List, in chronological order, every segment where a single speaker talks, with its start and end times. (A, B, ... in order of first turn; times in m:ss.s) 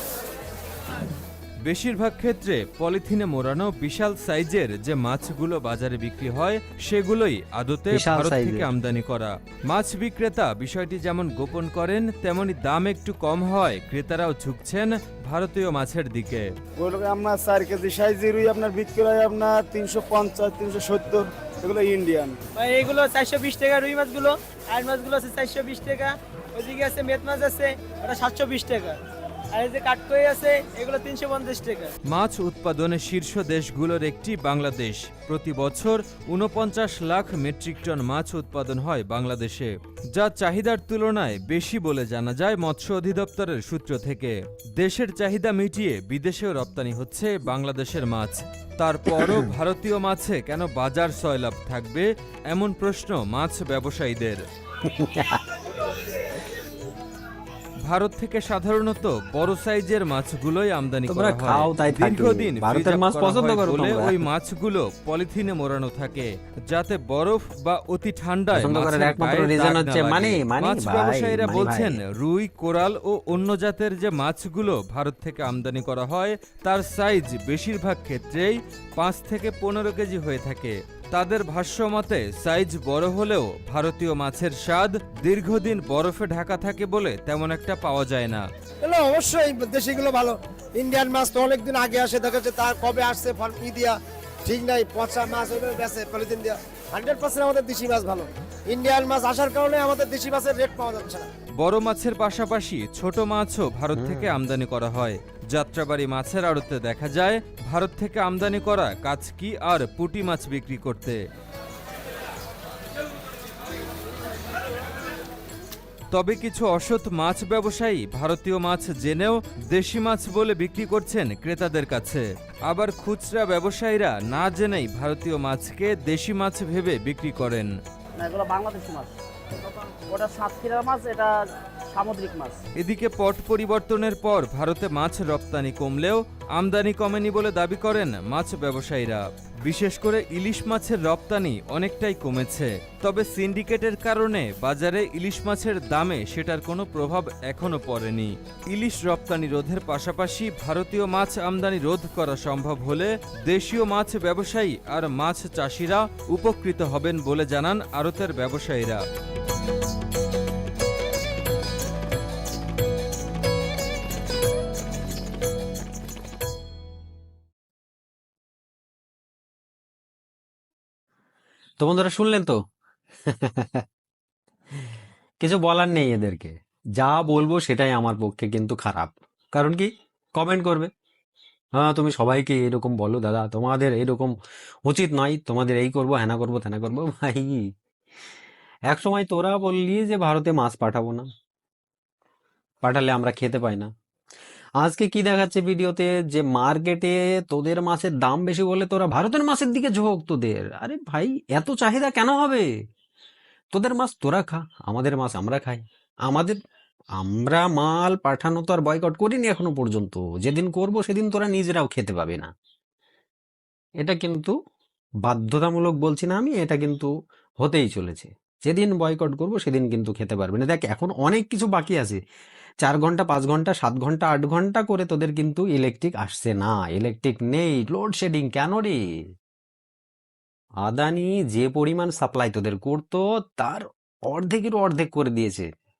0:01.6-0:16.5 A
0:07.9-0:08.7 B
0:16.8-0:22.4 C
0:22.6-0:29.0 D
0:29.5-0:31.9 D
0:32.1-0:54.4 A
0:49.1-0:49.5 B
0:54.8-0:55.4 B
0:57.8-1:28.4 A
1:01.1-1:04.2 B
1:08.5-1:12.0 B
1:28.8-1:41.3 E
1:41.6-1:51.2 A
1:43.9-1:44.3 B
1:56.1-2:07.7 A
2:08.2-2:09.0 F
2:08.2-2:09.1 E
2:09.9-2:11.3 F
2:11.9-2:12.6 E
2:12.0-2:12.4 F
2:12.8-2:39.0 A
2:51.8-2:52.6 B
2:53.2-2:53.8 B
2:55.4-3:00.9 B
3:01.8-3:04.3 B
3:04.9-3:07.6 B
3:08.9-3:11.3 B
3:12.8-3:13.9 B
3:14.8-3:22.7 B
3:23.7-3:26.6 B
3:27.2-3:32.5 B
3:34.0-3:34.5 B
3:35.2-3:37.1 B
3:37.6-3:42.2 B
3:42.8-3:49.0 B
3:50.8-3:55.7 B